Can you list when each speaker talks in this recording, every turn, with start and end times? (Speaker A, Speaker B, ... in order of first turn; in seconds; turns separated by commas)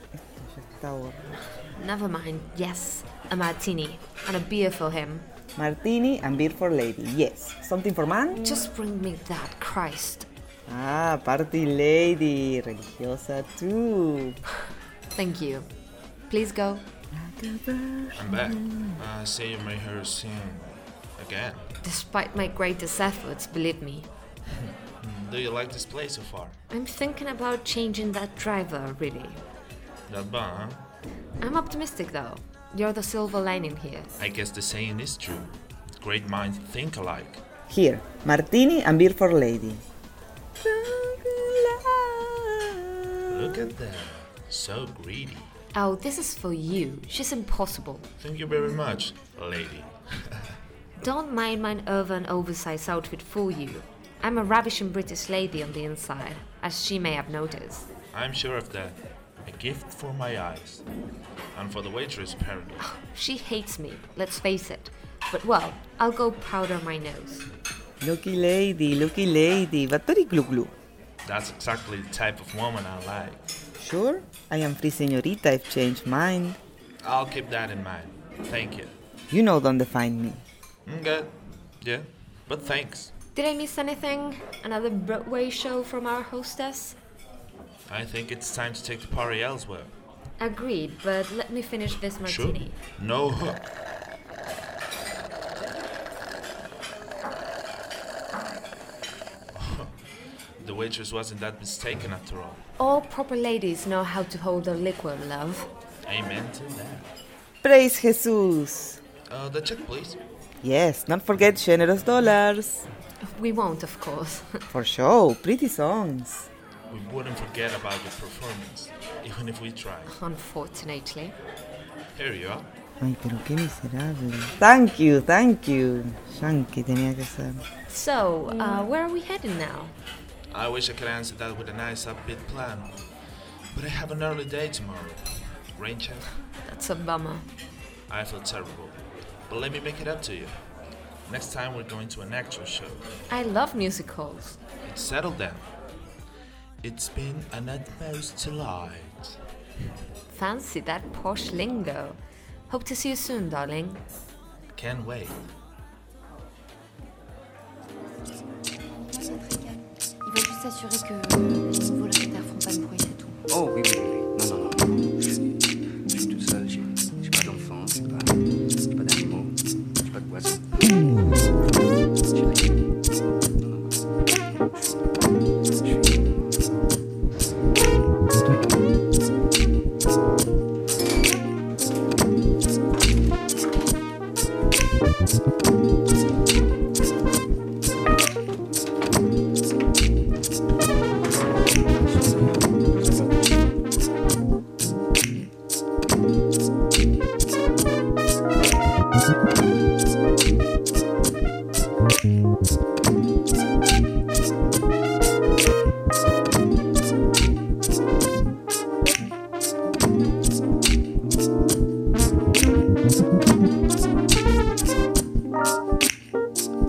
Speaker A: 0.2-1.3, Speaker B: 1.7-5.3, Speaker A: 5.5-8.4, Speaker B: 8.4-10.3, Speaker A: 10.7-14.4, Speaker B: 15.1-15.7, Speaker B: 16.3-16.8, Speaker A: 17.1-19.0, Speaker C: 18.1-21.7, Speaker B: 21.8-24.1, Speaker C: 25.0-26.6, Speaker B: 26.7-29.4, Speaker C: 30.1-30.8, Speaker B: 31.4-34.2, Speaker C: 34.2-37.4, Speaker A: 37.7-39.8, Speaker A: 40.6-43.4, Speaker C: 43.3-45.5, Speaker B: 45.7-48.1, Speaker C: 48.2-50.5, Speaker B: 51.0-57.9, Speaker C: 58.1-60.8, Speaker C: 61.5-62.8, Speaker B: 62.8-67.5, Speaker A: 68.0-70.8, Speaker C: 71.2-73.4, Speaker A: 73.8-76.6, Speaker C: 77.0-79.0, Speaker A: 79.3-80.4, Speaker C: 80.8-83.1, Speaker B: 83.3-87.0, Speaker C: 87.9-89.9, Speaker B: 90.4-92.8, Speaker C: 92.2-93.7, Speaker C: 99.5-99.9, Speaker C: 100.6-102.6, Speaker B: 102.8-105.7, Speaker C: 106.0-107.1, Speaker A: 107.6-109.0, Speaker C: 109.3-110.2, Speaker A: 110.6-112.9, Speaker B: 113.2-114.7, Speaker A: 114.7-116.5, Speaker C: 116.9-120.1, Speaker B: 120.1-121.3, Speaker C: 122.1-122.7, Speaker A: 123.0-127.6, Speaker B: 127.9-129.9, Speaker C: 130.5-132.9, Speaker C: 133.7-136.3, Speaker B: 136.6-137.4, Speaker C: 138.1-140.6, Speaker C: 141.2-143.1, Speaker B: 143.3-144.6, Speaker C: 144.8-145.7, Speaker C: 146.8-149.4, Speaker B: 150.3-154.0, Speaker C: 154.7-155.4, Speaker D: 159.1-163.3, Speaker E: 163.5-176.7, Speaker E: 178.3-178.9, Speaker E: 192.1-193.5